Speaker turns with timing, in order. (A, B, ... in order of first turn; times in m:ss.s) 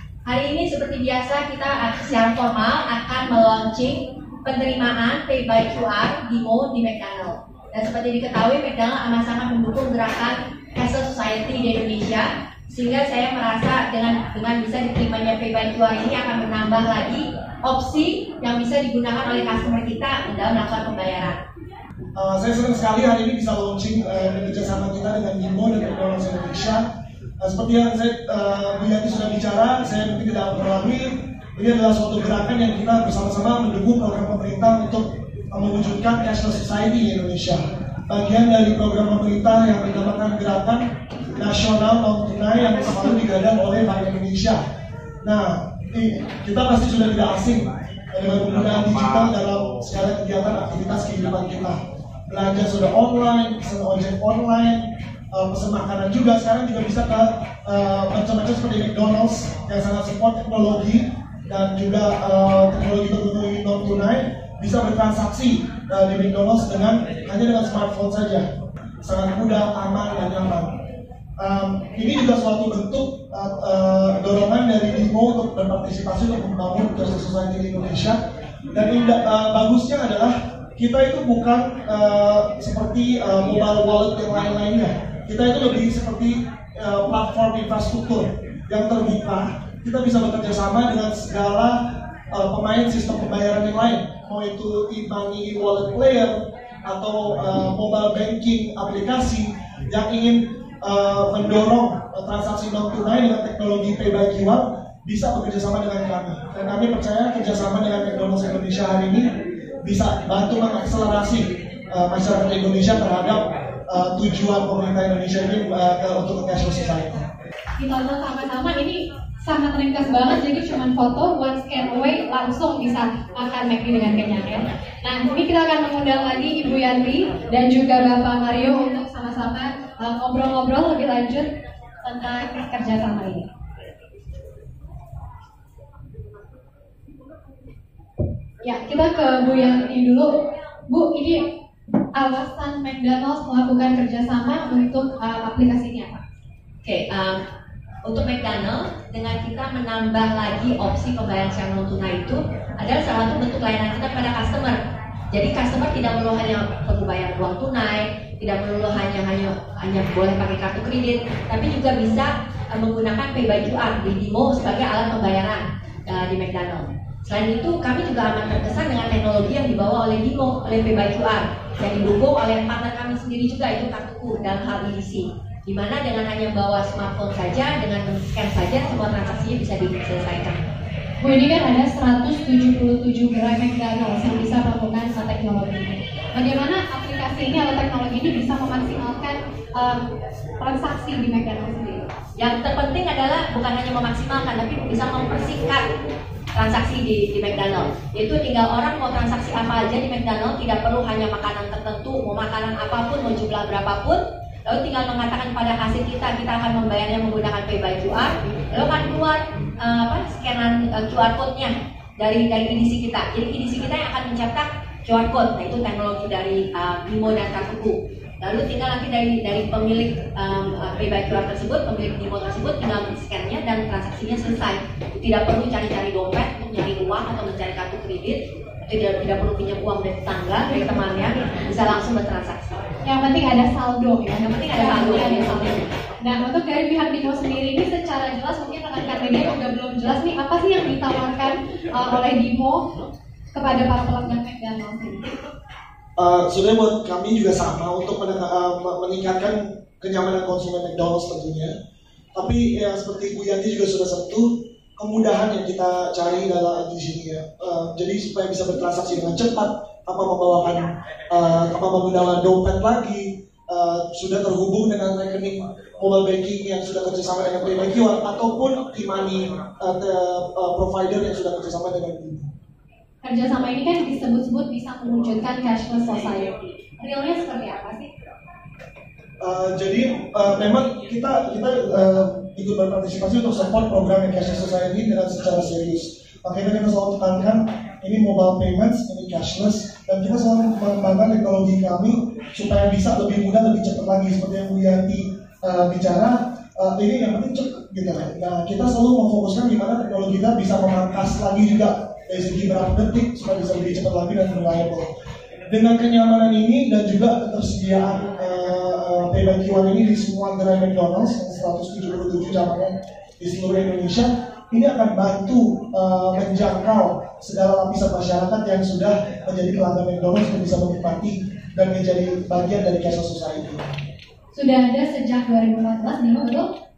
0:00.2-0:21.4 A
0:22.2-0:26.8 B
0:27.4-0:44.6 B
0:45.2-0:51.8 B
0:52.3-1:08.4 B
1:09.0-1:10.8 B
1:11.4-1:18.2 B
1:18.7-1:31.8 B
1:32.3-1:49.3 B
1:49.8-1:57.2 B
1:57.8-2:11.5 C
2:12.0-2:13.5 C
2:18.6-2:20.3 C
2:20.8-2:21.5 C
2:22.1-2:26.2 C
2:26.8-2:27.4 A
2:28.0-2:34.8 A
2:35.3-3:00.6 A
3:01.2-3:10.0 C
3:10.6-3:12.1 C
3:12.4-3:15.9 A
3:16.5-3:52.8 A
3:53.0-4:02.9 C
3:54.4-3:55.8 A
4:03.5-4:05.3 C
4:06.2-4:11.7 B
4:12.3-4:32.5 B
4:33.2-4:38.1 C
4:39.4-5:05.1 B
5:05.7-5:23.9 B
5:24.5-5:26.7 C